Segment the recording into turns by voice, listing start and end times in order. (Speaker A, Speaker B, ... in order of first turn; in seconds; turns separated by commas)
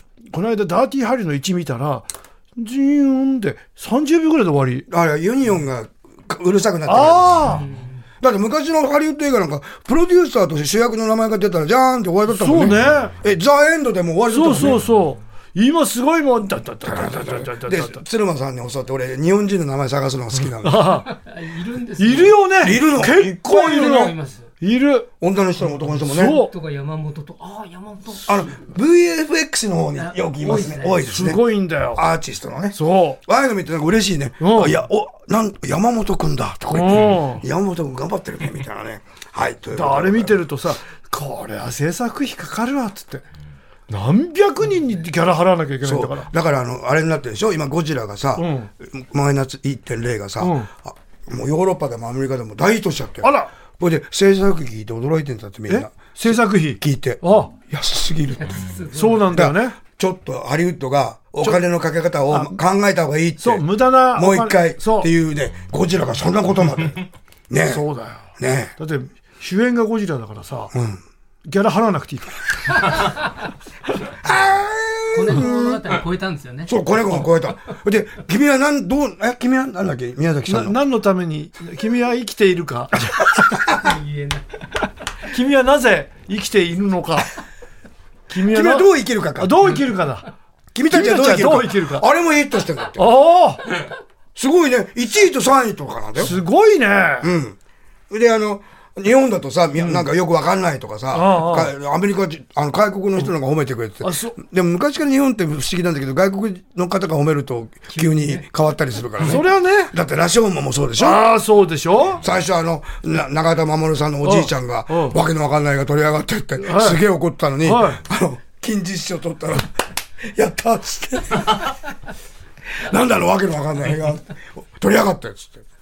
Speaker A: 0.3-4.9, Speaker B: 4.9-7.6, Speaker A: 6.9-7.7, Speaker C: 7.5-8.0, Speaker B: 8.2-14.9, Speaker A: 12.3-13.2, Speaker A: 14.3-18.0, Speaker B: 16.8-20.9, Speaker A: 20.4-21.1, Speaker C: 21.1-22.4, Speaker A: 22.0-25.1, Speaker B: 22.6-23.9, Speaker C: 23.4-24.5, Speaker B: 25.2-26.4, Speaker A: 26.0-26.5, Speaker C: 26.1-28.6, Speaker B: 28.3-31.4, Speaker C: 29.9-31.1, Speaker A: 31.0-32.0, Speaker B: 31.9-40.4, Speaker A: 32.7-33.2, Speaker A: 34.4-34.8, Speaker A: 36.7-37.4, Speaker A: 39.7-43.2, Speaker A: 43.9-46.3, Speaker B: 45.8-58.6, Speaker A: 48.4-48.7, Speaker A: 50.4-50.7, Speaker A: 53.2-53.5, Speaker A: 55.7-57.5, Speaker C: 58.4-59.3, Speaker A: 58.9-59.8, Speaker B: 59.3-67.8, Speaker A: 62.3-62.6, Speaker A: 63.4-65.1, Speaker A: 67.6-70.7, Speaker B: 68.4-68.7, Speaker B: 70.7-71.0, Speaker A: 71.5-73.1, Speaker B: 74.2-75.8, Speaker C: 75.1-77.1, Speaker B: 76.7-80.8, Speaker A: 80.5-83.3, Speaker C: 83.7-84.6, Speaker A: 85.3-87.3, Speaker A: 88.3-90.3, Speaker B: 88.4-89.7, Speaker B: 90.7-93.1, Speaker A: 90.9-92.1, Speaker A: 93.0-93.7, Speaker B: 94.4-96.4, Speaker A: 96.2-97.3, Speaker B: 97.2-97.6, Speaker B: 98.1-111.3, Speaker A: 99.8-100.1, Speaker A: 101.1-101.7, Speaker A: 104.0-104.4, Speaker C: 107.9-108.4, Speaker A: 109.2-109.9, Speaker A: 111.0-112.2, Speaker B: 112.2-121.8, Speaker A: 114.2-115.2, Speaker A: 116.6-117.0, Speaker A: 117.6-118.0, Speaker B: 122.7-125.6